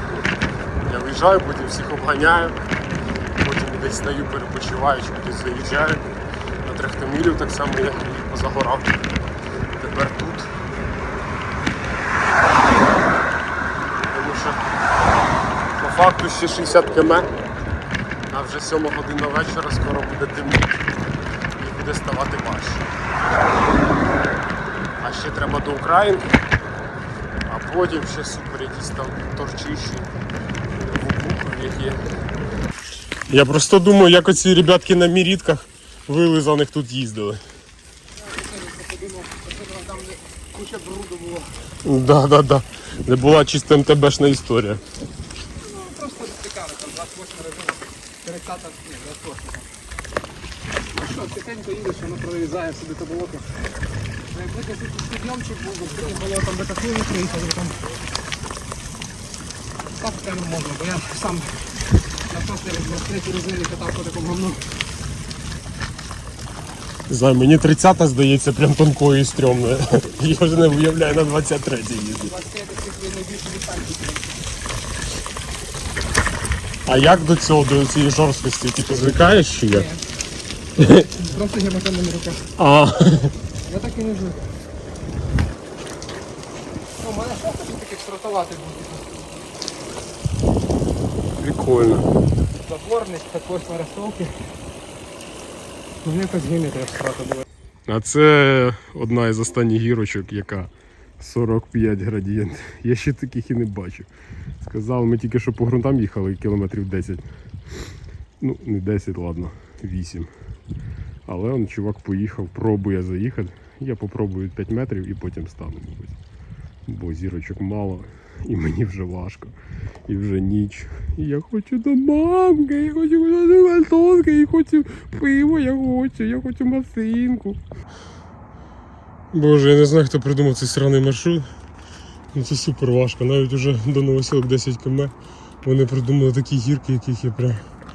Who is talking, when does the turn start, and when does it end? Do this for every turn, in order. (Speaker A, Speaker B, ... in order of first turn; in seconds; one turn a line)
Speaker A: 0.8-2.6
Speaker A: 3.4-6.0
Speaker A: 6.6-8.9
Speaker A: 9.8-10.5
Speaker A: 14.1-14.6
Speaker A: 15.8-17.3
Speaker A: 18.3-20.7
Speaker A: 21.6-22.8
Speaker A: 25.0-26.3
Speaker A: 27.5-30.1
Speaker A: 30.8-32.0
Speaker A: 33.3-37.4
Speaker B: 38.2-41.5
Speaker A: 41.8-44.8
Speaker B: 45.6-49.7
Speaker B: 50.9-53.5
Speaker B: 54.3-57.9
Speaker B: 60.0-61.6
Speaker B: 62.3-64.6
Speaker A: 67.1-72.3
Speaker B: 72.3-74.4
Speaker A: 76.8-79.9
Speaker B: 79.7-80.0
Speaker A: 80.8-81.0
Speaker B: 81.1-82.4
Speaker A: 82.6-83.3
Speaker B: 83.6-84.5
Speaker B: 87.0-89.2
Speaker A: 91.4-92.1
Speaker B: 92.5-94.3
Speaker B: 96.0-97.4
Speaker A: 97.9-104.1
Speaker A: 104.6-107.2
Speaker A: 108.4-110.3
Speaker A: 111.2-116.1
Speaker A: 116.8-119.5
Speaker A: 120.1-127.6
Speaker A: 129.3-131.5
Speaker A: 132.3-137.6